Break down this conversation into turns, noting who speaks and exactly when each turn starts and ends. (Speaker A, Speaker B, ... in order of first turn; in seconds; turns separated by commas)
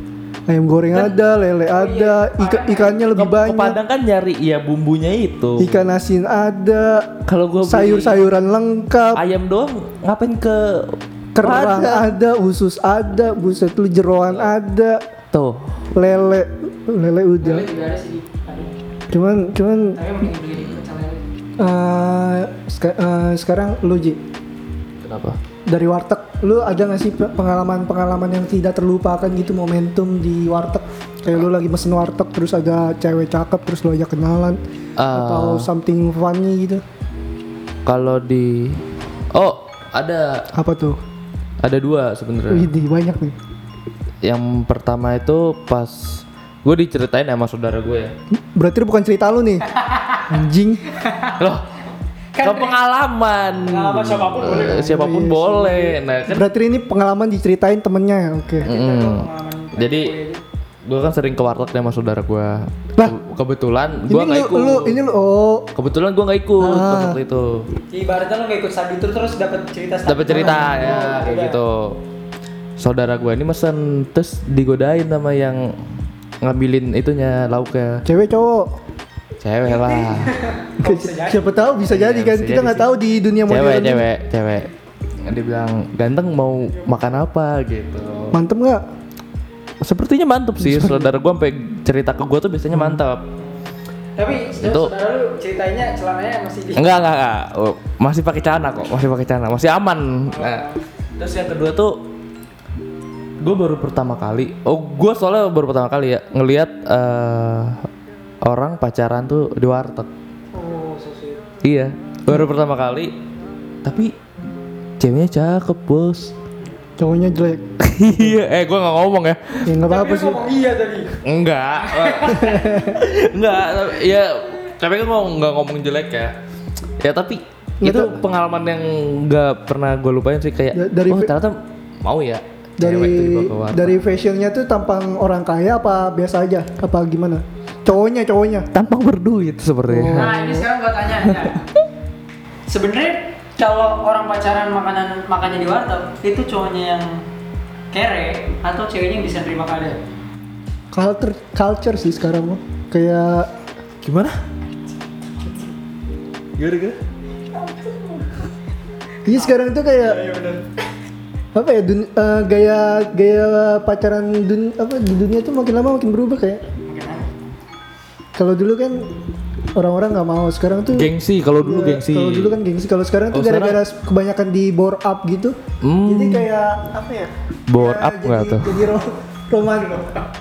Speaker A: 0.5-3.8, Speaker B: 0.9-1.2, Speaker B: 1.7-3.1, Speaker C: 3.1-5.8, Speaker A: 5.6-9.2, Speaker C: 7.3-8.2, Speaker C: 9.1-12.1, Speaker A: 11.3-15.0, Speaker C: 15.3-15.8, Speaker A: 15.9-17.7, Speaker B: 17.4-18.7, Speaker A: 19.1-20.0, Speaker B: 19.9-21.3, Speaker A: 21.6-24.2, Speaker C: 25.0-25.4, Speaker A: 25.7-34.6, Speaker C: 35.0-35.7, Speaker A: 35.1-36.8, Speaker C: 37.9-38.8, Speaker C: 39.3-40.5, Speaker A: 40.5-41.0, Speaker C: 41.6-42.7, Speaker A: 42.5-43.4, Speaker C: 44.2-48.1, Speaker A: 48.3-49.6, Speaker B: 49.7-50.3, Speaker A: 50.3-50.8, Speaker B: 50.9-51.4, Speaker C: 51.4-51.6, Speaker B: 52.3-52.8, Speaker C: 52.4-56.5, Speaker B: 53.6-54.9, Speaker A: 54.5-58.7, Speaker B: 58.6-60.4, Speaker C: 58.6-60.1, Speaker C: 60.9-65.0, Speaker A: 64.1-65.7, Speaker C: 65.8-67.7, Speaker A: 66.6-67.2, Speaker B: 67.9-71.6, Speaker C: 70.0-72.0, Speaker A: 70.3-71.1, Speaker C: 72.8-75.7, Speaker C: 76.4-78.0, Speaker A: 78.0-78.7, Speaker C: 79.4-80.3, Speaker B: 79.6-81.7, Speaker A: 80.8-84.0, Speaker C: 81.8-82.9, Speaker C: 83.5-84.7, Speaker C: 85.2-88.4, Speaker B: 86.7-87.1, Speaker A: 88.3-88.8, Speaker C: 89.8-93.2, Speaker A: 90.6-91.2, Speaker A: 92.7-93.0, Speaker B: 93.4-97.1, Speaker C: 94.4-94.9, Speaker C: 96.8-100.6, Speaker B: 100.3-100.8, Speaker C: 101.2-102.0, Speaker C: 103.4-107.9, Speaker C: 108.4-110.1, Speaker B: 110.5-111.4, Speaker C: 111.6-113.1, Speaker C: 113.8-114.1, Speaker C: 115.0-116.3, Speaker A: 117.0-117.6, Speaker C: 117.8-119.6, Speaker A: 119.7-120.5, Speaker B: 119.8-121.2, Speaker C: 121.2-126.3, Speaker B: 121.8-122.9, Speaker A: 122.4-123.0, Speaker C: 127.0-134.0, Speaker A: 127.8-128.2, Speaker A: 130.7-131.3, Speaker A: 132.8-138.7, Speaker C: 138.7-140.4, Speaker A: 139.9-140.6, Speaker B: 140.1-141.6, Speaker C: 141.2-141.5, Speaker B: 142.7-147.2, Speaker B: 147.9-150.0, Speaker A: 150.9-153.5, Speaker C: 154.0-154.4, Speaker B: 155.4-155.7, Speaker C: 156.6-157.0, Speaker B: 157.5-158.4, Speaker A: 159.2-160.2, Speaker B: 159.3-160.7, Speaker A: 161.5-166.6, Speaker B: 166.8-167.3, Speaker A: 168.3-169.1, Speaker A: 169.7-171.1, Speaker C: 170.9-172.5, Speaker A: 171.6-180.1, Speaker C: 173.3-173.8, Speaker C: 175.8-176.5, Speaker C: 177.7-178.8, Speaker B: 179.7-180.2